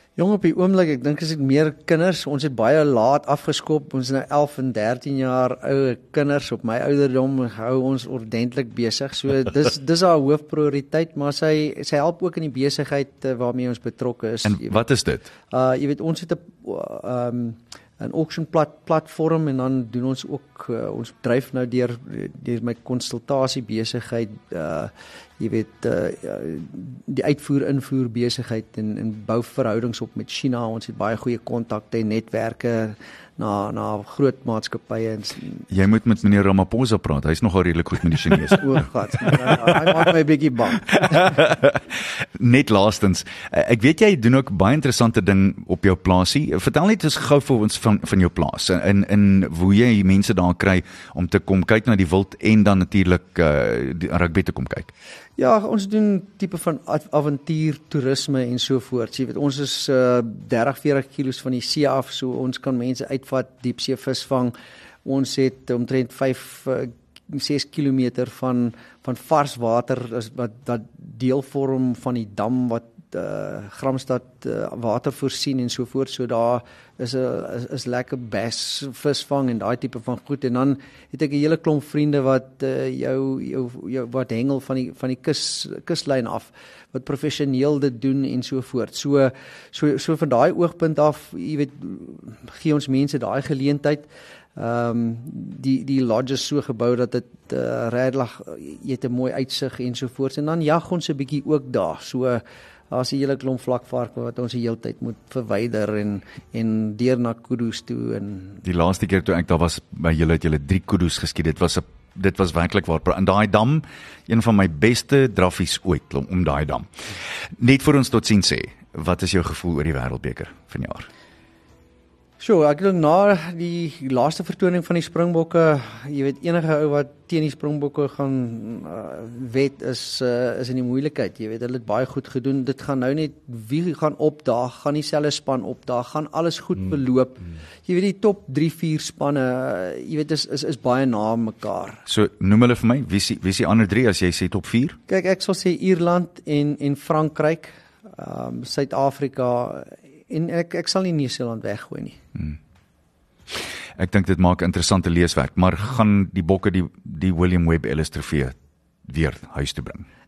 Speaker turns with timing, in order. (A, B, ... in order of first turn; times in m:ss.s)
0:00.2-0:14.8 A
0:14.4-0:15.3 B
0:15.5-0:35.6 A
0:35.7-0:40.1 B
0:38.6-0:41.4 A
0:40.9-0:54.9 B
0:55.4-1:04.5 A
1:05.0-1:48.6 A
1:48.6-1:56.9 B
1:57.6-2:01.1 B
2:02.4-2:22.0 A
2:22.1-2:25.0 B
2:25.1-2:32.2 A
2:34.0-2:38.6 B
2:39.1-2:40.0 B